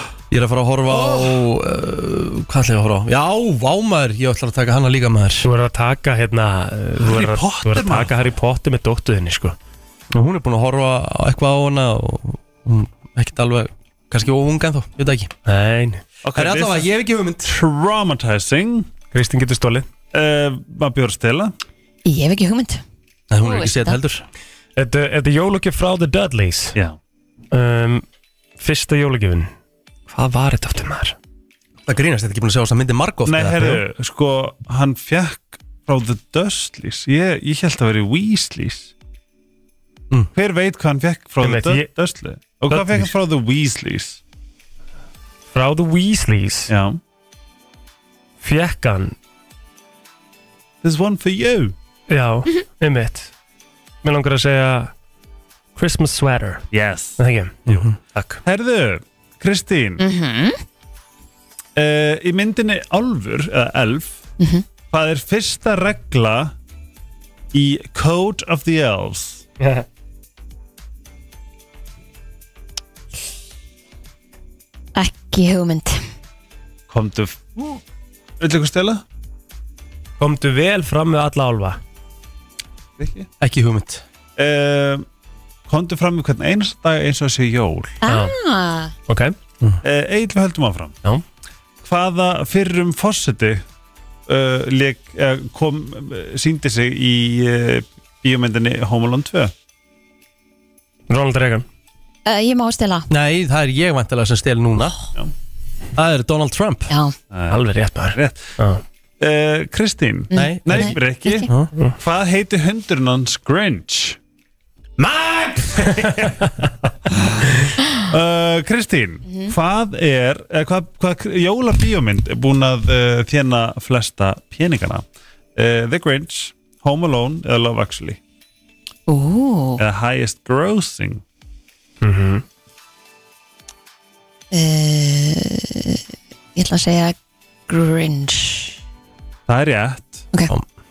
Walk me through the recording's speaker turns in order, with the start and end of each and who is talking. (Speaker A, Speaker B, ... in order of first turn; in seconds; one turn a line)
Speaker A: 0.3-5.5
Speaker B: 5.4-9.5
Speaker C: 7.0-8.1
Speaker A: 10.1-15.3
Speaker B: 15.4-16.0
Speaker C: 16.2-16.9
Speaker A: 16.3-17.5
Speaker C: 17.4-18.9
Speaker B: 19.1-19.9
Speaker C: 20.1-21.5
Speaker D: 22.1-22.8
Speaker A: 23.3-24.2
Speaker D: 23.4-24.0
Speaker B: 24.8-26.8
Speaker B: 27.5-28.0
Speaker B: 28.6-29.5
Speaker B: 30.1-31.1
Speaker A: 31.9-33.8
Speaker C: 33.2-38.9
Speaker C: 40.3-44.2
Speaker B: 41.4-41.9
Speaker B: 42.7-43.1
Speaker B: 45.5-46.7
Speaker C: 46.7-47.0
Speaker B: 48.4-49.1
Speaker C: 50.8-51.7
Speaker B: 52.1-53.3
Speaker B: 54.0-54.9
Speaker B: 55.8-56.6
Speaker C: 56.7-57.8
Speaker B: 57.2-58.4
Speaker C: 58.4-60.0
Speaker D: 60.0-60.6
Speaker C: 61.8-64.2
Speaker D: 64.4-64.6
Speaker C: 64.9-66.5
Speaker C: 67.5-69.5
Speaker B: 69.6-69.8
Speaker D: 75.0-76.0
Speaker C: 76.9-77.8
Speaker C: 78.4-79.0
Speaker B: 80.2-81.8
Speaker C: 83.0-83.3
Speaker A: 83.4-84.0
Speaker C: 84.4-85.0
Speaker C: 85.7-88.0
Speaker D: 88.0-88.9
Speaker B: 88.0-88.3
Speaker B: 89.1-89.3
Speaker C: 89.8-91.0
Speaker C: 91.8-93.6
Speaker C: 94.3-99.5
Speaker B: 101.1-101.6
Speaker D: 102.2-103.1
Speaker A: 103.1-105.0
Speaker A: 106.0-106.9
Speaker D: 106.9-107.1
Speaker C: 107.3-107.6
Speaker B: 107.5-108.8
Speaker C: 108.1-108.5
Speaker C: 109.2-111.5
Speaker D: 110.3-111.5
Speaker A: 110.3-110.9
Speaker C: 112.0-114.2
Speaker C: 115.0-116.4
Speaker B: 115.9-116.2
Speaker C: 117.0-128.2
Speaker D: 129.1-129.8
Speaker C: 129.8-131.2
Speaker B: 132.0-132.4
Speaker D: 134.5-136.0
Speaker D: 136.6-137.2
Speaker D: 137.7-138.8
Speaker C: 139.5-140.3